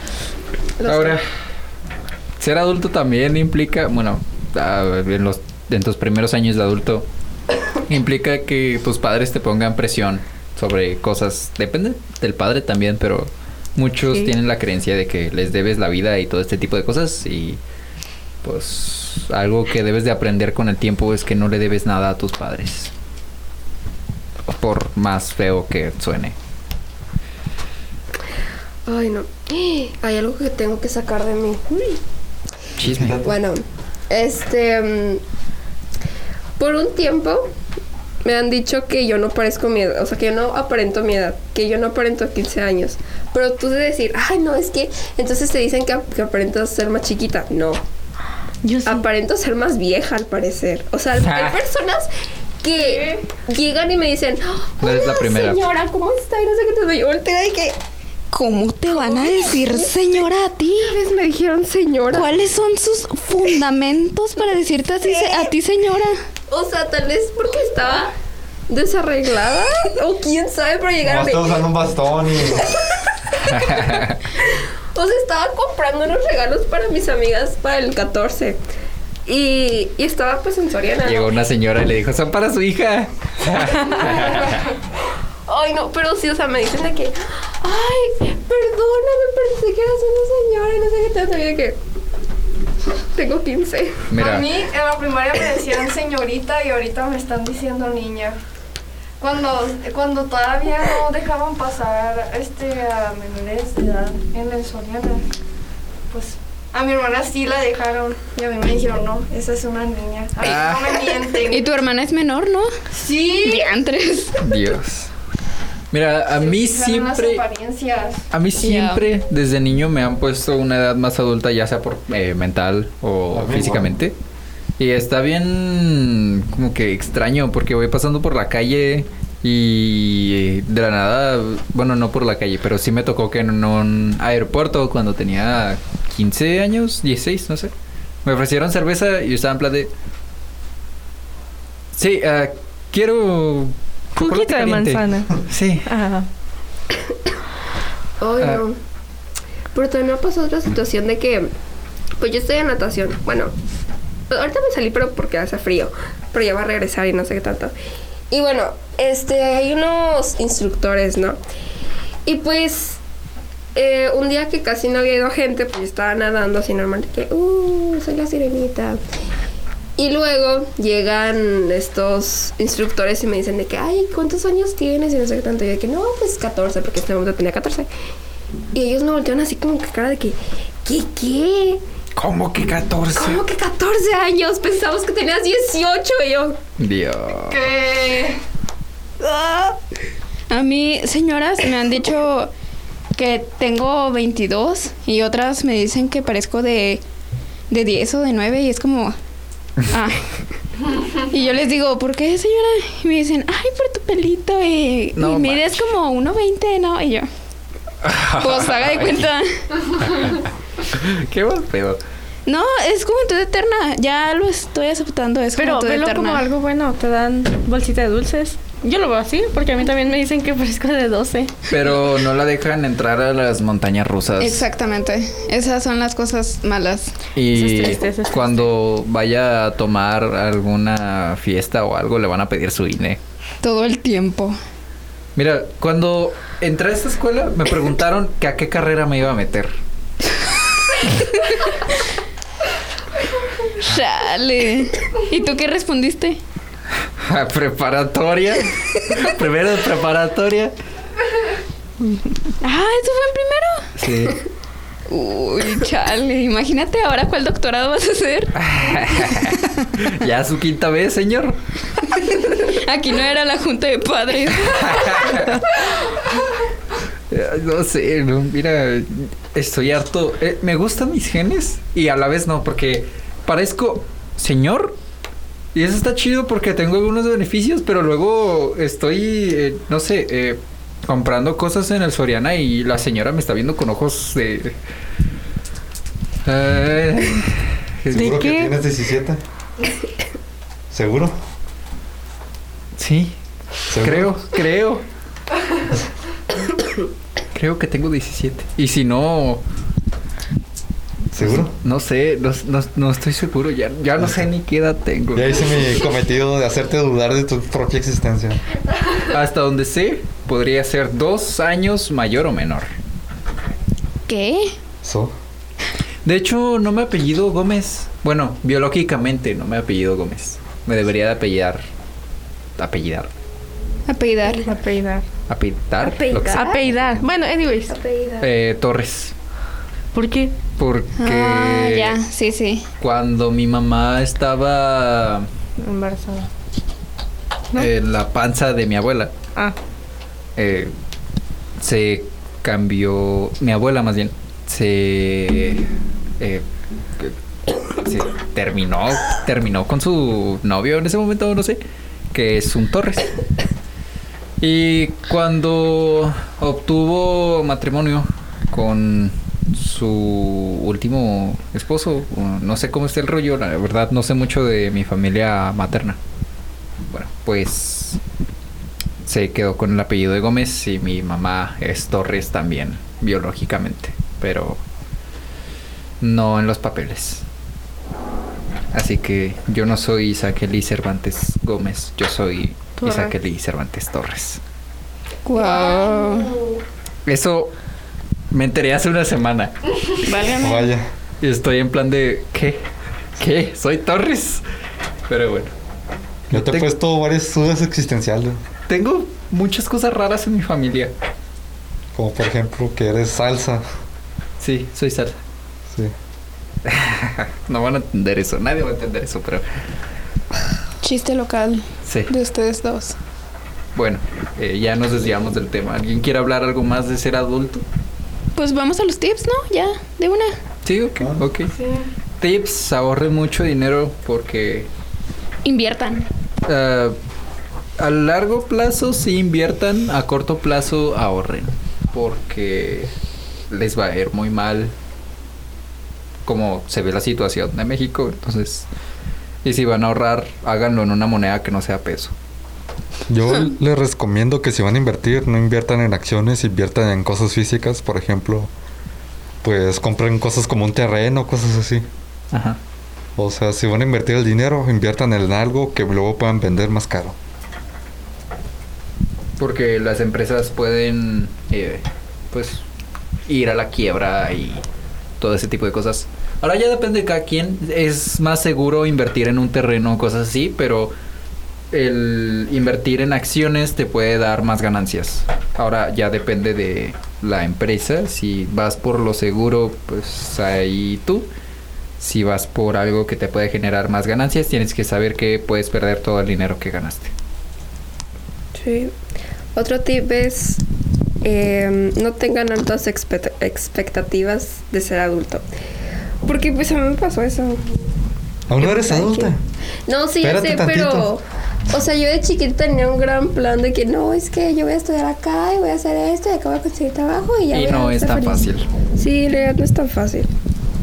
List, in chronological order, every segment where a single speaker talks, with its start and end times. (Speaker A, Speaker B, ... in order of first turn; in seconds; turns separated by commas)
Speaker A: 0.8-1.2, Speaker B: 0.8-1.2, Speaker B: 2.4-7.0, Speaker B: 7.9-17.6, Speaker C: 14.1-14.3, Speaker B: 18.4-22.9, Speaker B: 24.5-26.4, Speaker A: 28.9-31.6, Speaker C: 31.7-32.0, Speaker B: 32.8-33.2, Speaker D: 32.8-33.4, Speaker A: 33.2-35.2, Speaker A: 36.6-37.5, Speaker A: 38.2-47.8, Speaker C: 48.6-49.0, Speaker A: 48.9-52.1, Speaker B: 51.2-51.6, Speaker A: 52.6-57.8, Speaker E: 52.8-53.2, Speaker B: 54.8-55.6, Speaker F: 58.3-61.0, Speaker A: 59.0-59.7, Speaker A: 60.8-62.3, Speaker F: 62.1-66.2, Speaker A: 65.1-65.5, Speaker A: 66.5-68.1, Speaker A: 68.7-71.6, Speaker D: 71.0-72.7, Speaker A: 72.5-73.9, Speaker B: 73.4-74.2, Speaker A: 74.5-78.6, Speaker A: 79.3-81.3, Speaker B: 81.0-84.6, Speaker A: 83.8-84.5, Speaker A: 85.5-91.8, Speaker A: 93.1-94.1, Speaker B: 94.1-94.5, Speaker E: 94.2-98.4, Speaker E: 99.2-105.2, Speaker E: 106.1-111.7, Speaker B: 110.4-111.1, Speaker F: 111.4-112.7, Speaker E: 112.9-113.7, Speaker F: 113.4-114.4, Speaker B: 114.4-115.1, Speaker B: 115.9-117.4, Speaker E: 116.3-118.2, Speaker B: 118.3-124.1, Speaker F: 118.6-119.0, Speaker D: 123.3-123.9, Speaker B: 124.8-137.7, Speaker B: 138.2-139.9, Speaker B: 141.9-145.9, Speaker C: 144.2-146.3, Speaker A: 148.2-148.8, Speaker A: 149.7-151.5, Speaker A: 152.2-153.5, Speaker A: 154.3-157.7, Speaker A: 158.3-161.4, Speaker A: 162.2-163.0, Speaker A: 163.7-169.0, Speaker A: 170.0-177.9, Speaker A: 178.7-181.8, Speaker B: 182.2-183.4, Speaker A: 183.1-186.6, Speaker B: 186.8-187.6, Speaker E: 187.5-188.4, Speaker F: 189.2-189.8, Speaker F: 190.5-192.5, Speaker F: 193.1-197.0, Speaker F: 197.7-199.1, Speaker F: 199.8-200.3, Speaker F: 200.9-207.3, Speaker B: 205.1-205.9, Speaker B: 208.0-209.3, Speaker F: 208.4-210.3, Speaker B: 210.0-212.0, Speaker F: 212.4-216.4, Speaker C: 215.6-221.6, Speaker B: 221.7-224.7, Speaker F: 224.4-227.1, Speaker B: 227.3-233.2, Speaker C: 227.5-228.7, Speaker F: 233.6-234.6, Speaker B: 235.3-239.7, Speaker F: 243.8-246.4, Speaker B: 247.2-250.7, Speaker F: 252.6-253.9, Speaker B: 254.0-254.4, Speaker F: 255.1-259.8, Speaker B: 258.5-262.0, Speaker F: 262.2-265.5, Speaker B: 264.6-265.6, Speaker B: 267.3-275.0, Speaker B: 275.7-284.7, Speaker B: 286.4-288.4, Speaker D: 288.1-289.4, Speaker C: 288.1-288.7, Speaker D: 290.9-291.4, Speaker B: 293.0-293.4, Speaker D: 293.9-294.3, Speaker B: 293.9-295.1, Speaker B: 297.5-299.6, Speaker D: 301.3-301.7, Speaker B: 301.4-305.7, Speaker D: 305.3-308.6, Speaker B: 309.2-312.9, Speaker F: 314.3-314.7, Speaker D: 315.0-315.3, Speaker B: 316.2-321.8, Speaker B: 322.8-323.3, Speaker F: 324.1-324.7, Speaker C: 324.6-325.2, Speaker B: 325.5-326.8, Speaker A: 326.0-326.8, Speaker C: 326.5-327.9, Speaker A: 327.9-328.5, Speaker B: 328.4-329.3, Speaker C: 330.1-330.5, Speaker B: 330.8-332.2, Speaker F: 331.2-332.8, Speaker B: 333.0-335.5, Speaker C: 335.8-336.5, Speaker B: 337.7-339.3, Speaker B: 340.6-340.9, Speaker B: 341.8-345.9, Speaker B: 346.4-346.6, Speaker B: 348.0-351.8, Speaker B: 352.3-353.3, Speaker B: 354.6-366.2, Speaker B: 367.1-368.2, Speaker B: 369.2-374.8, Speaker B: 376.2-377.4, Speaker B: 378.9-384.6, Speaker C: 383.0-383.3, Speaker F: 385.4-386.6, Speaker E: 385.6-386.4, Speaker A: 385.6-386.0, Speaker B: 387.2-387.7, Speaker B: 388.5-389.7, Speaker F: 390.2-390.9, Speaker D: 390.6-391.1, Speaker B: 391.4-392.8, Speaker B: 393.4-394.6, Speaker B: 395.3-395.7, Speaker B: 396.5-396.9, Speaker D: 396.5-398.6, Speaker B: 398.9-401.1, Speaker D: 402.1-403.8, Speaker B: 404.6-405.4, Speaker D: 405.9-406.1, Speaker B: 406.8-409.6, Speaker F: 411.0-413.1, Speaker B: 412.0-412.3, Speaker B: 413.9-417.8, Speaker F: 418.5-420.5, Speaker B: 420.8-421.7, Speaker D: 421.2-421.4, Speaker E: 421.8-422.0, Speaker B: 422.4-424.9, Speaker F: 425.6-426.3, Speaker B: 426.6-427.2, Speaker B: 428.0-433.1, Speaker B: 433.7-434.9, Speaker B: 436.4-438.9, Speaker B: 439.6-442.3, Speaker D: 443.3-448.7, Speaker D: 449.6-452.0, Speaker B: 452.5-452.8, Speaker D: 453.4-457.4, Speaker B: 459.6-462.8, Speaker B: 463.4-464.8, Speaker B: 465.4-471.1, Speaker B: 471.9-481.5, Speaker B: 482.2-487.3, Speaker A: 488.7-489.1, Speaker A: 489.7-490.8, Speaker A: 491.4-495.6, Speaker A: 496.4-497.9, Speaker D: 498.7-499.6, Speaker A: 498.8-499.5, Speaker A: 500.1-510.5, Speaker D: 500.4-501.3, Speaker B: 507.7-508.9